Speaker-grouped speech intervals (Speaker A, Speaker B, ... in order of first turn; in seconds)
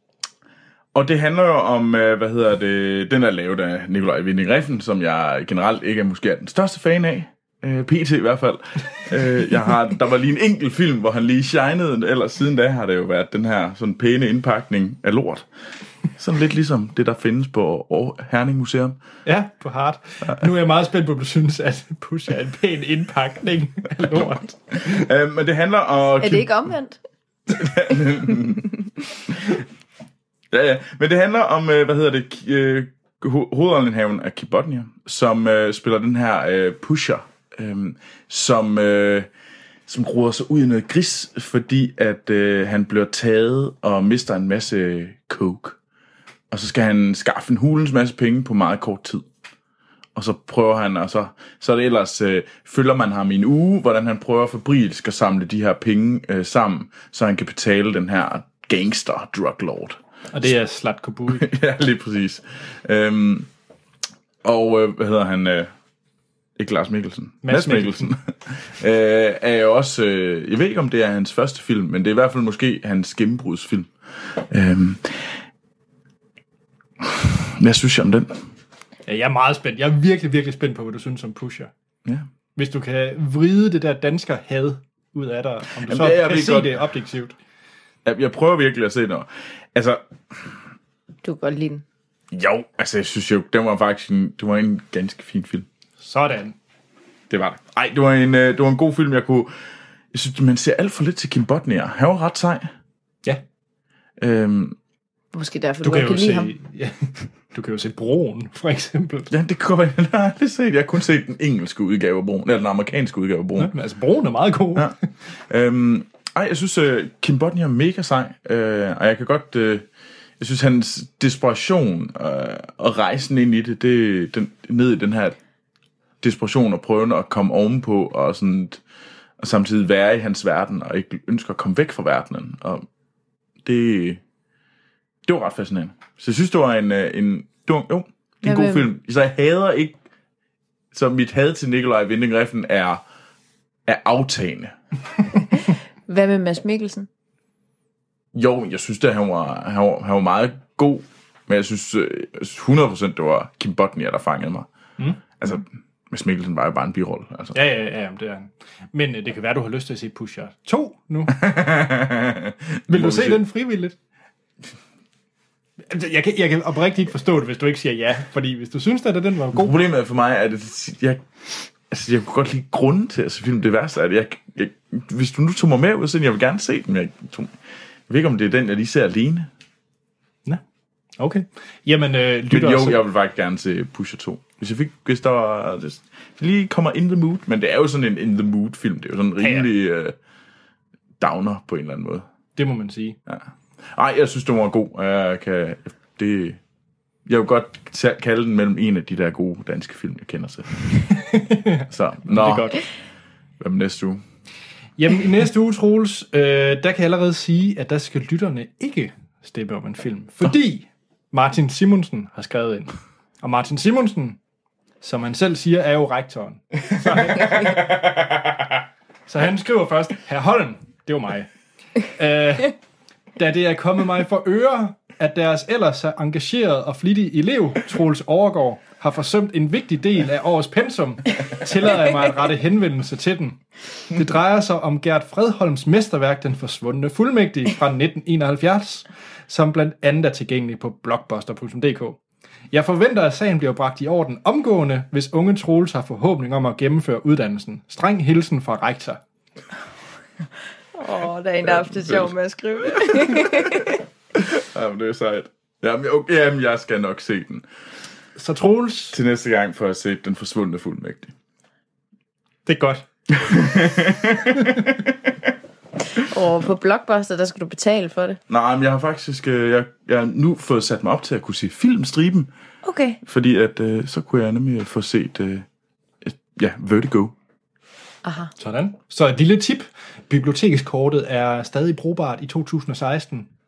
Speaker A: 0.9-15.5, 16.1-19.0, 24.8-26.7, 27.5-28.7, 29.3-29.6, 30.5-39.3, 39.9-45.8, 46.5-49.2, 50.1-60.5, 61.3-63.5, 64.4-65.7, 66.6-75.4, 77.0-78.4, 85.8-86.8, 88.0-90.5, 92.3-95.7, 97.3-99.5, 100.1-102.7, 104.2-104.8, 109.3-113.7, 115.5-119.9, 120.4-125.3, 126.2-128.8, 129.4-132.8, 133.6-134.2, 135.2-140.0, 140.9-143.0, 143.8-144.7, 148.3-154.7, 155.4-157.6, 161.3-163.4, 169.5-171.2, 171.9-177.6, 178.1-179.5, 182.5-190.1, 191.2-192.2, 193.3-196.6, 197.2-200.7, 201.9-202.8, 203.6-204.2, 217.6-218.7, 251.6-252.3, 252.9-257.6, 259.1-261.3, 263.3-265.1, 268.5-272.5, 273.2-275.6, 276.2-277.3
Speaker B: 19.2-25.1, 60.3-61.5, 67.4-68.1, 79.1-81.7, 82.5-87.3, 96.0-96.5, 105.8-109.3, 113.6-114.9, 157.5-161.4, 162.9-163.9, 165.9-169.7, 181.2-183.0, 189.4-189.7, 192.6-193.2, 201.1-202.8, 205.0-214.4, 215.0-217.8, 219.3-221.5, 222.1-222.7, 223.4-242.2, 242.7-249.2, 258.4-259.2, 262.6-263.0, 278.6-283.5
Speaker C: 26.2-27.0, 91.2-91.8, 105.3-106.5, 138.4-138.9, 145.5-147.1, 250.9-254.0, 266.1-268.4, 272.8-273.2, 278.2-278.5